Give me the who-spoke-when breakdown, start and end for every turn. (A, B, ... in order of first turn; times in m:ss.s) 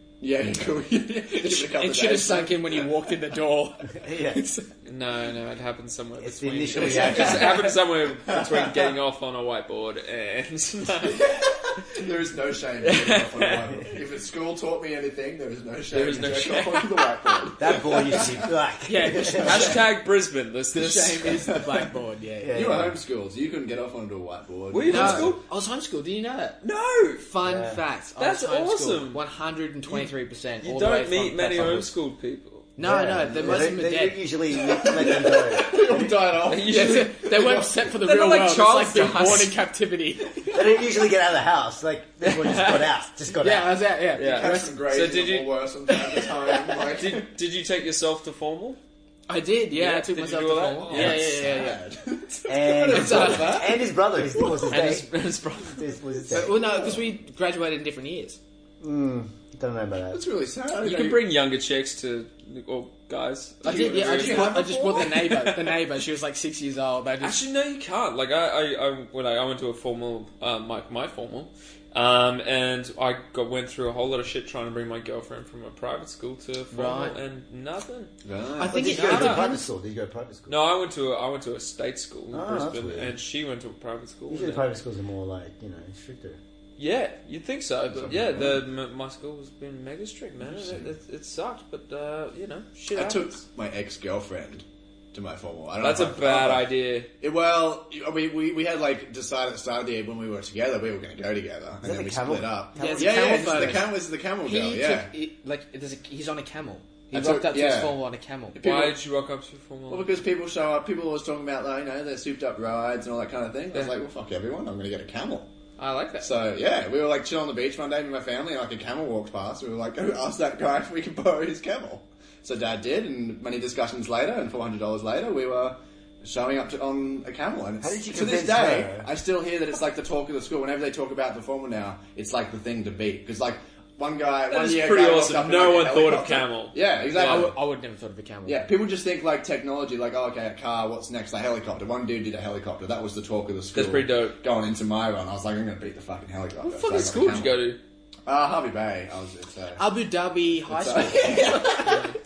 0:00.2-0:02.9 A
0:01.3-0:04.7 B
0:04.0-0:04.4 C
0:04.8-0:12.0 D
0:06.2-0:07.6 C
0:06.7-0:08.9 A
0:11.0-0:18.5 A
0:12.8-0:14.0 D
0:15.9-0:17.6 D
0:17.6-0:19.7 C
0:18.8-0:19.8 B
0:19.1-0:19.8 A
0:19.4-0:21.5 D
0:20.7-0:22.8 B
0:21.4-0:21.9 A
0:22.4-0:22.9 C
0:22.5-0:25.3 A
0:24.7-0:25.4 D
0:24.9-0:26.6 B
0:26.6-0:27.3 D
0:27.2-0:31.9 B
0:27.4-0:27.8 C
0:28.2-0:29.2 D
0:29.8-0:32.7 D
0:32.8-0:35.4 B
0:32.8-0:36.2 C
0:33.3-0:33.7 A
0:34.6-0:37.7 A
0:36.5-0:39.5 D
0:36.6-0:40.7 B
0:40.5-0:43.8 C
0:42.3-0:42.7 B
0:42.4-0:42.8 D
0:43.4-0:44.7 B
0:44.1-0:45.5 D
0:44.2-0:47.3 A
0:46.1-0:46.8 B
0:46.9-0:48.8 D
0:49.3-0:51.8 B
0:49.7-0:51.4 D
0:50.9-0:53.9 A
0:52.5-0:55.1 C
0:52.7-0:53.8 B
0:54.2-0:56.0 D
0:55.6-0:56.6 C
0:56.3-0:58.4 B
0:56.6-0:57.0 A
0:58.8-1:00.2 C
1:00.1-1:01.2 A
1:00.8-1:05.8 D
1:03.6-1:07.4 B
1:03.6-1:05.5 A
1:07.2-1:18.1 D
1:16.7-1:17.2 B
1:18.2-1:18.9 A
1:18.6-1:19.7 B
1:18.6-1:20.6 C
1:18.8-1:19.5 D
1:20.5-1:24.7 D
1:22.3-1:23.2 C
1:24.3-1:26.4 C
1:26.8-1:33.4 D
1:27.9-1:28.6 A
1:30.4-1:30.9 A
1:32.9-1:45.1 A
1:35.8-1:37.1 D
1:41.8-1:43.9 C
1:42.8-1:43.9 B
1:44.4-1:48.6 B
1:47.1-1:48.0 A
1:48.5-1:49.0 A
1:48.6-1:50.1 D
1:49.9-1:55.5 A
1:55.8-1:56.3 D
1:56.2-2:17.6 A
2:07.8-2:09.1 C
2:14.5-2:17.5 D
2:17.1-2:18.7 B
2:18.4-2:27.6 A
2:23.7-2:24.4 D
2:26.6-2:27.8 D
2:28.2-2:29.9 A
2:29.8-2:31.9 B
2:30.7-2:32.0 A
2:31.7-2:32.2 D